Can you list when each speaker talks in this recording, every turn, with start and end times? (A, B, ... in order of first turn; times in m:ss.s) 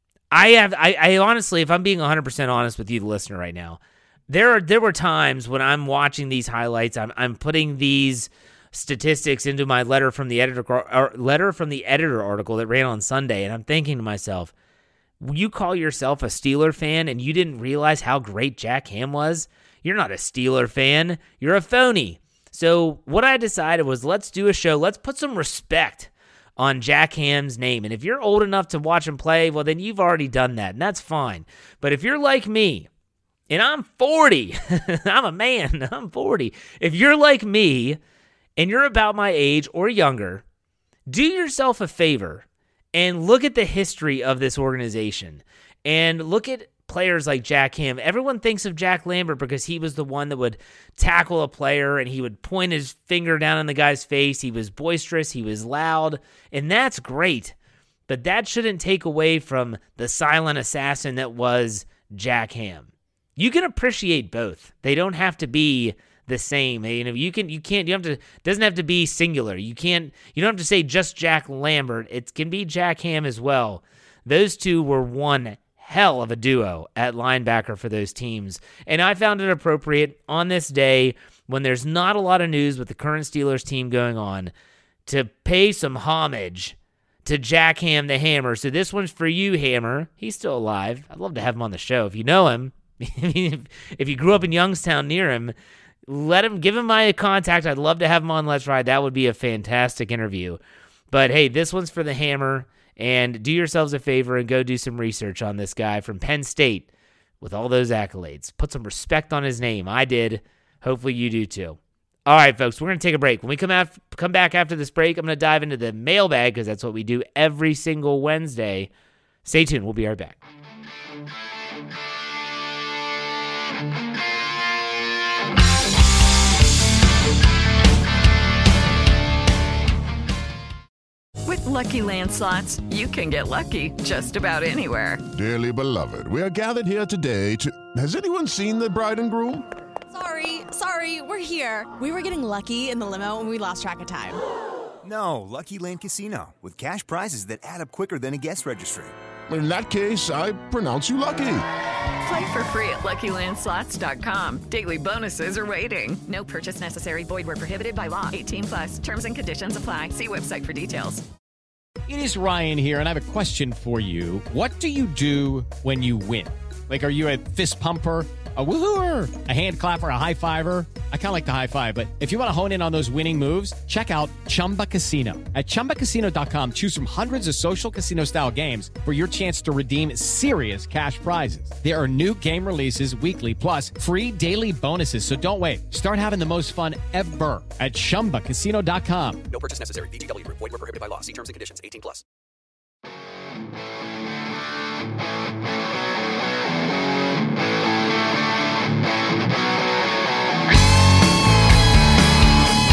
0:00.3-0:14.5 A
0:15.2-0:32.9 A
0:33.5-0:38.0 A
0:38.6-0:40.4 A
0:41.1-0:57.5 A
0:58.1-1:24.5 A
1:25.0-1:35.5 A
1:36.1-1:40.6 A
1:41.1-1:46.9 A
1:47.4-1:58.9 A
1:59.4-2:00.4 A
2:11.4-2:15.2 B
2:15.3-2:19.7 C
2:20.1-2:24.4 D
2:25.0-2:29.1 E
2:29.5-2:31.6 C
2:32.2-2:41.2 B
2:42.1-3:09.4 F
3:09.5-3:12.2 G